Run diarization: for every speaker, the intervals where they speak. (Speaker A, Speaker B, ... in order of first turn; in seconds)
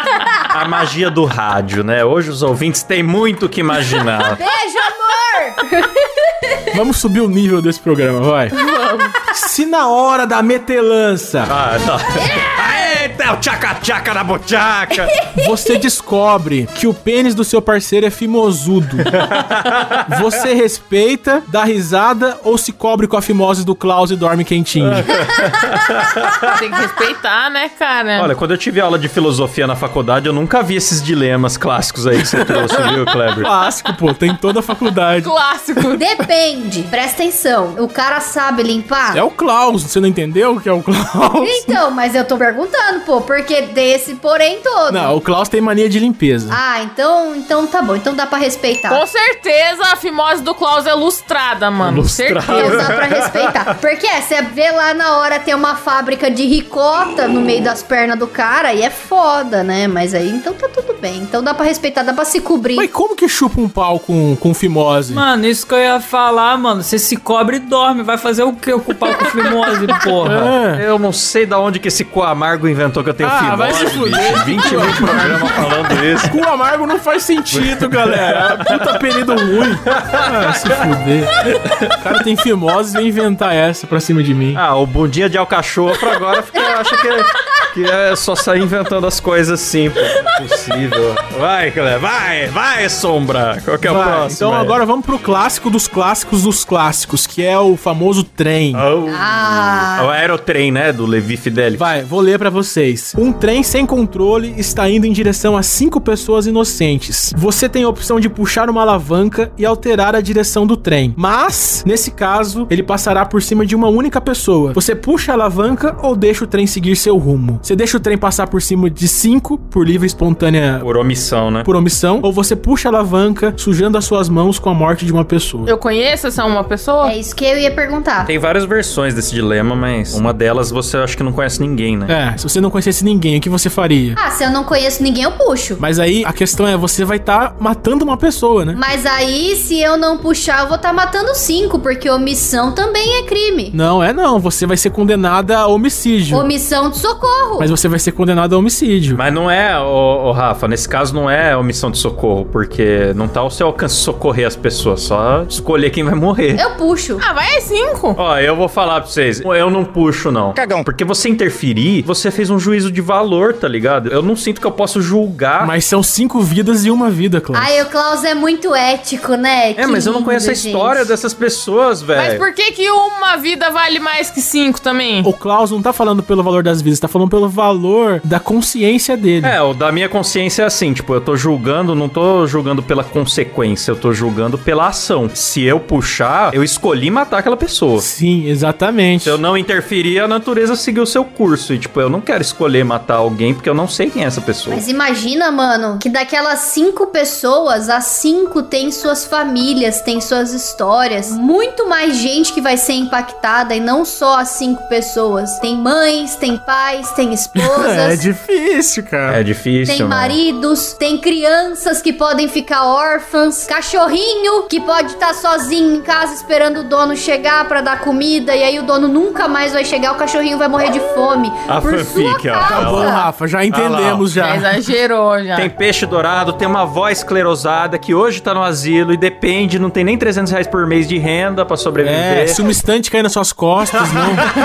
Speaker A: 0.5-4.4, 11.5-15.2, 19.0-20.1, 24.8-26.6, 28.1-33.5, 51.8-53.6, 70.5-76.3, 77.5-79.0, 79.9-80.9, 81.4-82.0, 84.5-94.7, 98.7-101.9, 120.8-121.7, 128.2-132.1, 149.1-156.6, 158.2-165.7, 169.8-172.4, 179.4-188.1, 189.2-194.8, 209.3-210.4, 221.7-223.1, 223.7-224.3, 225.6-232.6
Speaker B: 4.2-6.6, 12.1-13.0, 35.9-39.2, 41.4-45.1, 46.5-49.0, 52.5-62.9, 99.1-100.1, 127.0-128.3, 134.2-135.8, 138.7-143.8, 146.3-147.7, 156.5-157.2, 167.5-171.1, 194.7-208.2, 209.8-223.3
Speaker C: 6.7-8.6, 9.3-11.5, 15.3-19.1, 20.1-25.1, 32.2-35.3, 39.1-41.8, 44.9-46.6, 62.8-65.2, 70.2-70.8, 73.2-81.4, 81.9-84.6, 93.8-98.8, 101.7-120.9, 121.6-125.7, 132.1-134.2, 135.8-138.8, 143.7-146.5, 147.6-149.2, 165.6-167.8, 175.2-179.6, 188.0-189.4, 207.6-209.4, 222.6-224.7, 232.0-234.5
Speaker D: 8.5-9.2, 26.5-28.3, 35.2-36.0, 48.9-52.9, 125.7-127.1, 157.2-158.2, 172.1-175.3, 224.3-225.7
Speaker E: 65.1-70.5